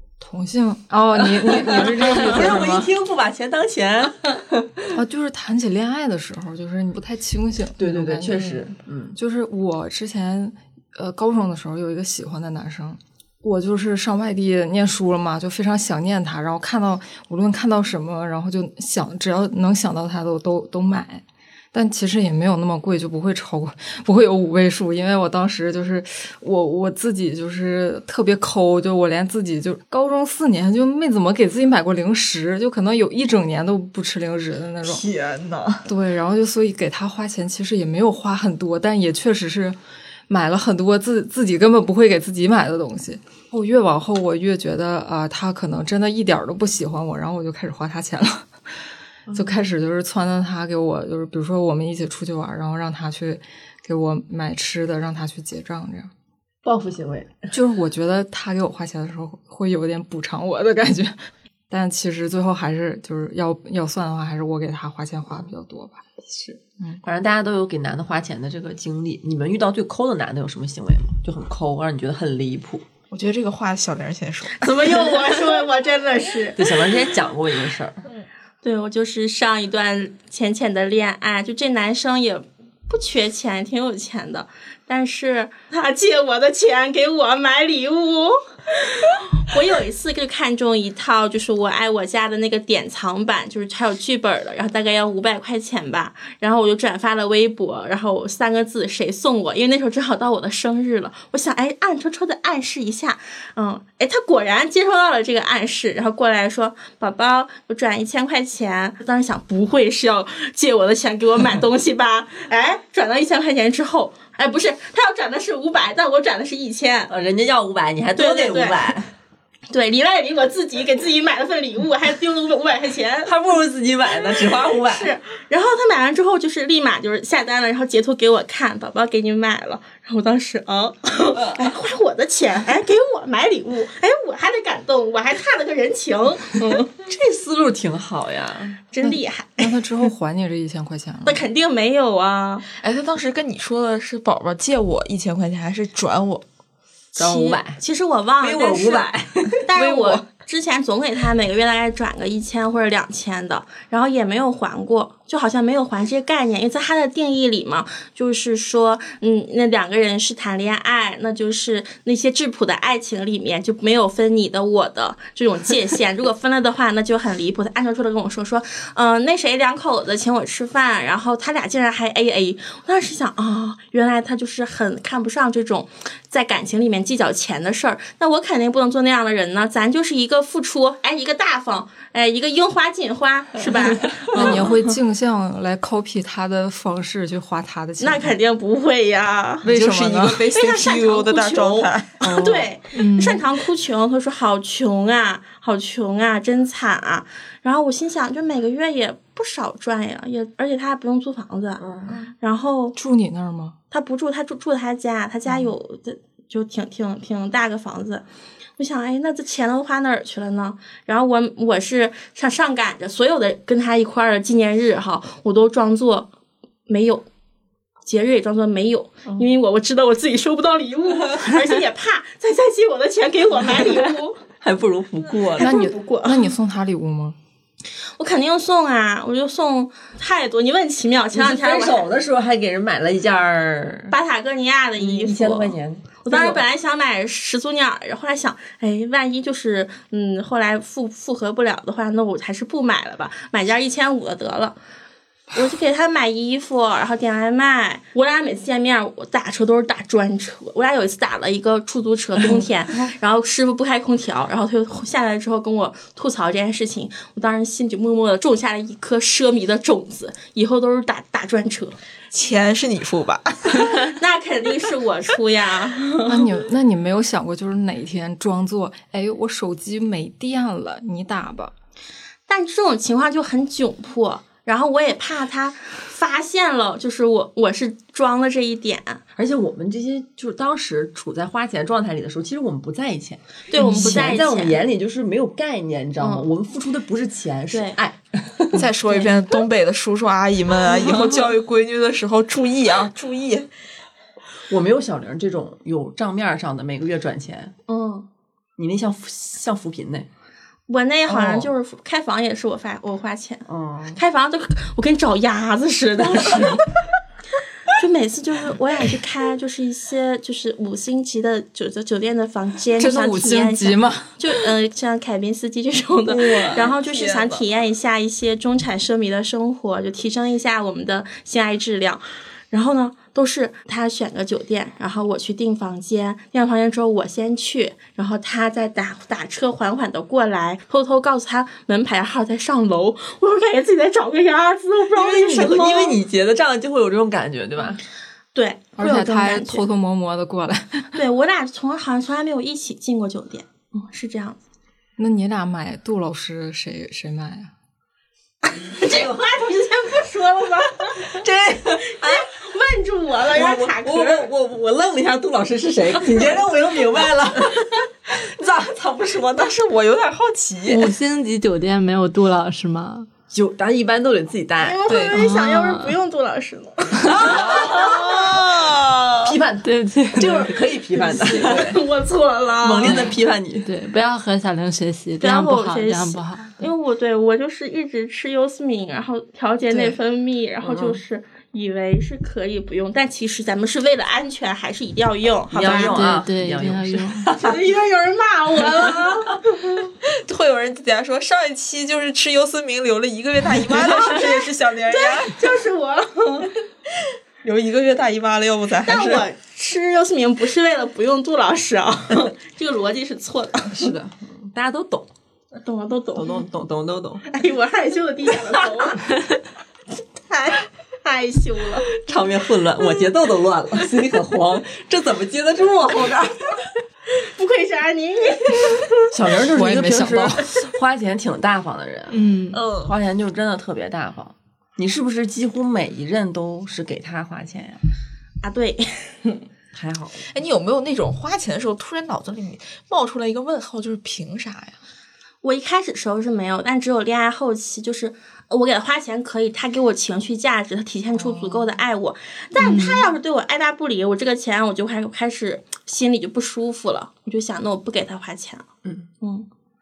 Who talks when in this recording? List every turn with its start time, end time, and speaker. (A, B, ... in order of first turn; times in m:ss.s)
0:00.2-0:02.9 A
0:01.3-0:04.8 B
0:04.9-0:08.6 A
0:07.8-0:09.2 B
0:09.1-0:35.0 A
0:34.8-0:35.9 C
0:35.8-0:39.8 A
0:40.3-0:48.5 A
0:49.3-0:56.1 A
0:56.6-0:57.5 B
0:57.5-1:01.2 A
1:01.7-1:06.0 A
1:06.2-1:12.8 B
1:13.1-1:15.3 C
1:14.6-1:16.9 D
1:16.6-1:18.0 B
1:18.6-1:57.1 D
1:57.1-1:59.1 B
1:58.2-1:58.9 D
1:59.7-2:03.3 D
2:03.2-2:05.1 B
2:04.2-2:16.9 D
2:17.0-2:18.8 B
2:18.9-2:19.7 D
2:19.0-2:21.4 A
2:21.2-2:22.7 D
2:22.7-2:26.4 C
2:27.2-2:27.8 B
2:27.2-3:04.9 D
2:28.4-2:29.5 B
2:29.7-2:30.3 C
3:04.3-3:08.3 A
3:08.0-3:09.6 D
3:09.6-3:10.4 A
3:09.6-3:12.3 C
3:10.5-3:23.0 D
3:12.2-3:13.3 A
3:12.9-3:13.4 E
3:21.8-3:22.1 B
3:22.9-3:23.8 A
3:23.9-3:28.2 D
3:28.8-3:36.3 D
3:36.9-3:37.2 D
3:38.0-3:44.4 D
3:44.6-3:45.7 B
3:45.6-3:46.4 D
3:45.6-3:47.4 A
3:48.2-3:52.1 D
3:51.3-3:54.1 B
3:54.1-4:04.8 D
3:55.0-3:56.6 B
4:05.5-4:22.0 D
4:22.3-4:24.1 C
4:23.8-4:26.5 D
4:26.2-4:31.7 A
4:32.5-4:39.2 D
4:39.4-4:48.8 B
4:43.7-4:44.8 D
4:46.2-4:46.5 D
4:47.7-4:48.0 D
4:48.7-4:53.7 C
4:54.7-4:57.7 B
4:57.9-4:58.2 D
4:58.8-5:00.3 B
5:00.9-5:06.8 D
5:03.7-5:04.2 B
5:07.9-5:36.2 D
5:13.0-5:14.3 A
5:16.2-5:17.6 C
5:35.1-5:38.0 B
5:38.5-5:39.8 D
5:39.0-5:41.1 A
5:41.1-5:44.6 D
5:45.2-5:47.7 A
5:48.7-5:51.4 D
5:49.0-5:49.4 B
5:51.2-5:52.5 B
5:52.1-5:54.5 D
5:53.5-5:59.6 B
5:59.3-6:01.1 C
6:00.9-6:03.3 E
6:03.5-6:05.0 B
6:04.8-6:09.1 D
6:05.1-6:05.4 C
6:05.3-6:06.1 E
6:07.3-6:09.5 C
6:07.4-6:08.2 B
6:09.4-6:12.0 B
6:09.8-6:10.7 E
6:11.3-6:13.3 D
6:11.4-6:12.0 C
6:12.8-6:13.9 B
6:13.8-6:16.9 E
6:15.4-6:26.3 D
6:20.8-6:21.2 B
6:25.7-6:27.8 B
6:25.8-6:27.5 E
6:27.6-6:29.9 D
6:30.2-6:35.6 C
6:35.1-6:36.7 D
6:37.6-6:39.4 C
6:39.0-6:44.1 D
6:43.9-6:45.3 B
6:45.8-6:46.6 D
6:46.3-6:47.4 B
6:47.5-6:49.2 D
6:50.5-6:52.1 D
6:52.2-6:56.8 B
6:57.3-6:59.0 D
6:59.3-7:02.4 B
6:59.6-7:00.7 A
7:02.3-7:02.8 E
7:02.7-7:03.1 C
7:03.0-7:08.0 B
7:08.6-7:09.6 D
7:09.9-7:10.4 B
7:10.4-7:15.0 C
7:15.6-7:28.9 D
7:22.8-7:23.3 E
7:29.4-7:29.7 D